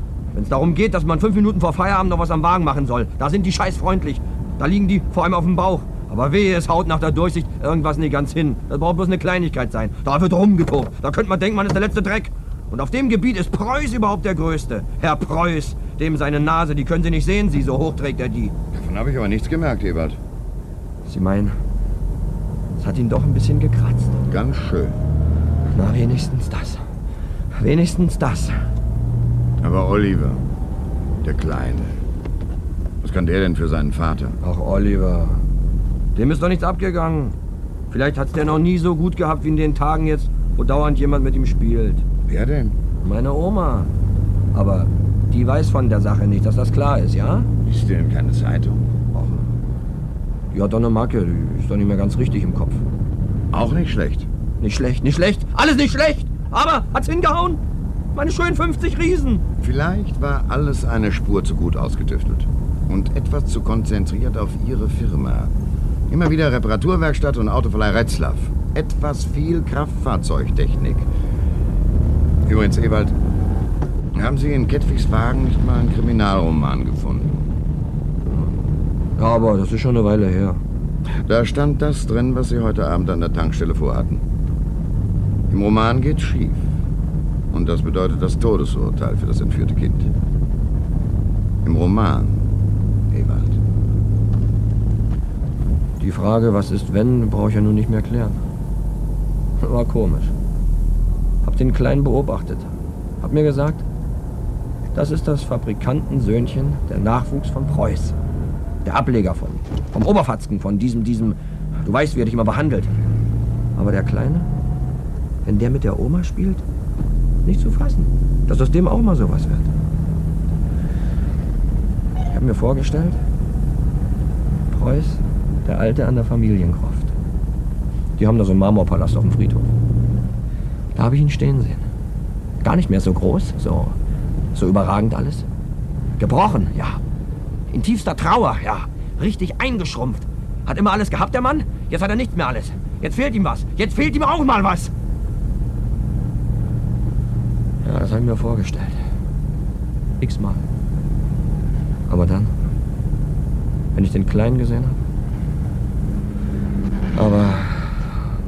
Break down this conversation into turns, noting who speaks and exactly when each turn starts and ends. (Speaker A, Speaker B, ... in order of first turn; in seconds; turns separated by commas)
Speaker A: 0.3-18.5, Speaker B: 18.7-20.2, Speaker A: 21.1-21.5, Speaker A: 22.8-24.2, Speaker B: 24.3-25.0, Speaker A: 25.7-26.8, Speaker A: 27.6-28.5, Speaker B: 29.6-30.4, Speaker B: 31.2-32.0, Speaker B: 33.0-34.4, Speaker A: 34.4-35.4, Speaker A: 36.1-37.4, Speaker A: 37.9-42.0, Speaker B: 42.3-42.8, Speaker A: 43.0-43.9, Speaker A: 44.5-47.5, Speaker B: 47.6-48.9, Speaker A: 49.1-49.4, Speaker A: 50.5-52.8, Speaker B: 53.5-54.3, Speaker A: 54.6-57.6, Speaker A: 58.1-59.4, Speaker B: 59.6-65.5, Speaker B: 66.1-71.1, Speaker B: 72.4-73.2, Speaker B: 74.1-77.5, Speaker A: 78.3-78.5, Speaker A: 79.2-80.6, Speaker B: 81.2-84.2, Speaker B: 85.5-86.7, Speaker B: 87.5-90.1, Speaker B: 91.6-92.4, Speaker B: 93.1-93.6, Speaker A: 96.0-98.4, Speaker A: 99.6-100.3, Speaker A: 101.4-103.8, Speaker A: 104.9-108.1, Speaker A: 108.8-112.9, Speaker A: 113.8-114.5, Speaker A: 115.4-116.6, Speaker A: 117.4-119.7, Speaker A: 122.3-123.2, Speaker A: 124.7-127.1, Speaker A: 128.2-129.7, Speaker A: 130.9-131.8, Speaker A: 132.6-133.9, Speaker A: 134.5-135.4, Speaker A: 136.2-137.0, Speaker A: 137.7-144.9, Speaker A: 147.8-149.0, Speaker A: 150.2-150.6, Speaker A: 152.1-152.5, Speaker A: 153.9-155.0, Speaker A: 157.1-158.0